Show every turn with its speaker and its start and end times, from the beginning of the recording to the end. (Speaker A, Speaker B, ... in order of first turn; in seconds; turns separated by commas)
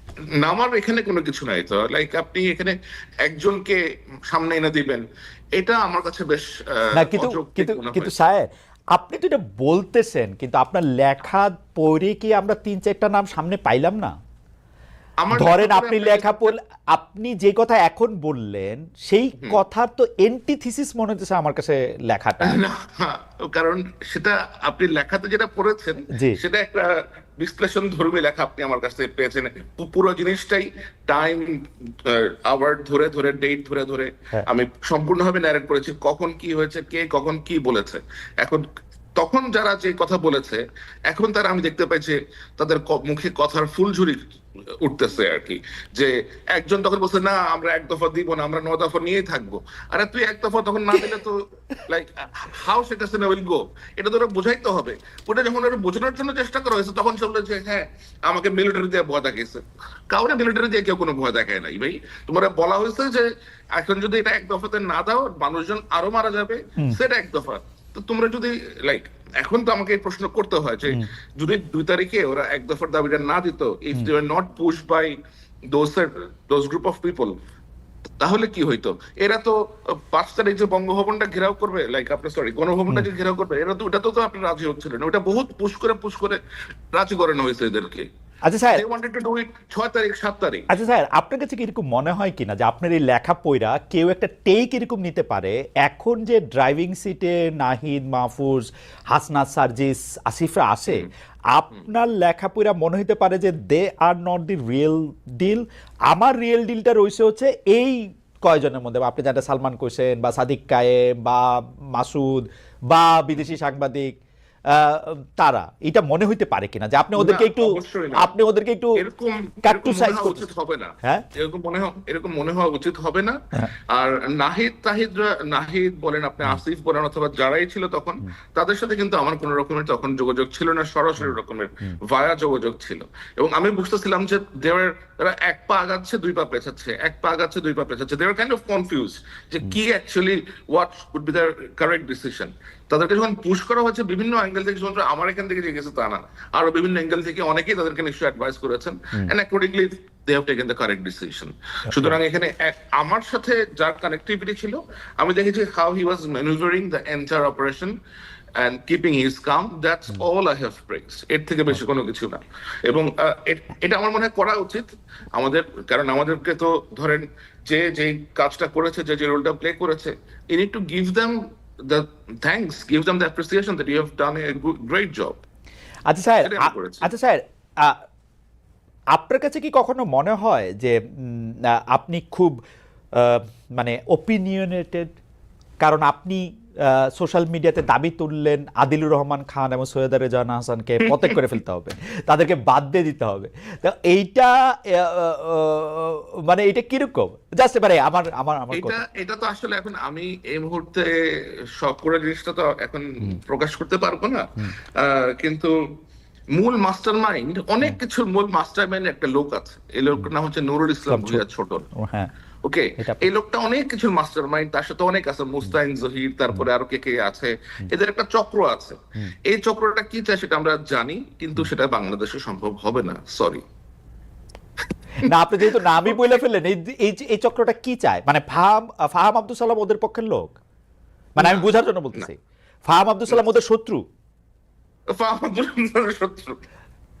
Speaker A: 0.3-5.0, Speaker A: 5.5-8.1, Speaker B: 7.0-14.1, Speaker A: 15.2-16.5, Speaker B: 15.3-22.6, Speaker A: 22.4-38.6, Speaker B: 26.1-26.4, Speaker A: 39.2-75.2, Speaker A: 75.7-77.3, Speaker A: 78.2-86.4, Speaker A: 86.9-88.1, Speaker B: 88.4-88.8, Speaker A: 88.7-90.7, Speaker B: 90.7-114.1, Speaker B: 114.7-119.0, Speaker A: 117.2-118.3, Speaker A: 119.0-157.9, Speaker B: 119.6-120.4, Speaker B: 131.2-132.0, Speaker B: 151.9-152.2, Speaker A: 158.6-175.4, Speaker B: 176.1-178.0, Speaker A: 176.4-177.1, Speaker B: 179.1-182.6, Speaker B: 183.1-185.2, Speaker B: 185.8-199.0, Speaker A: 198.7-206.0, Speaker A: 206.5-211.9, Speaker B: 211.1-211.4, Speaker B: 211.9-212.3, Speaker A: 212.6-223.6, Speaker B: 213.0-213.3, Speaker B: 225.2-230.6, Speaker A: 225.3-226.4, Speaker B: 231.3-234.0, Speaker A: 231.4-232.3, Speaker A: 235.1-236.6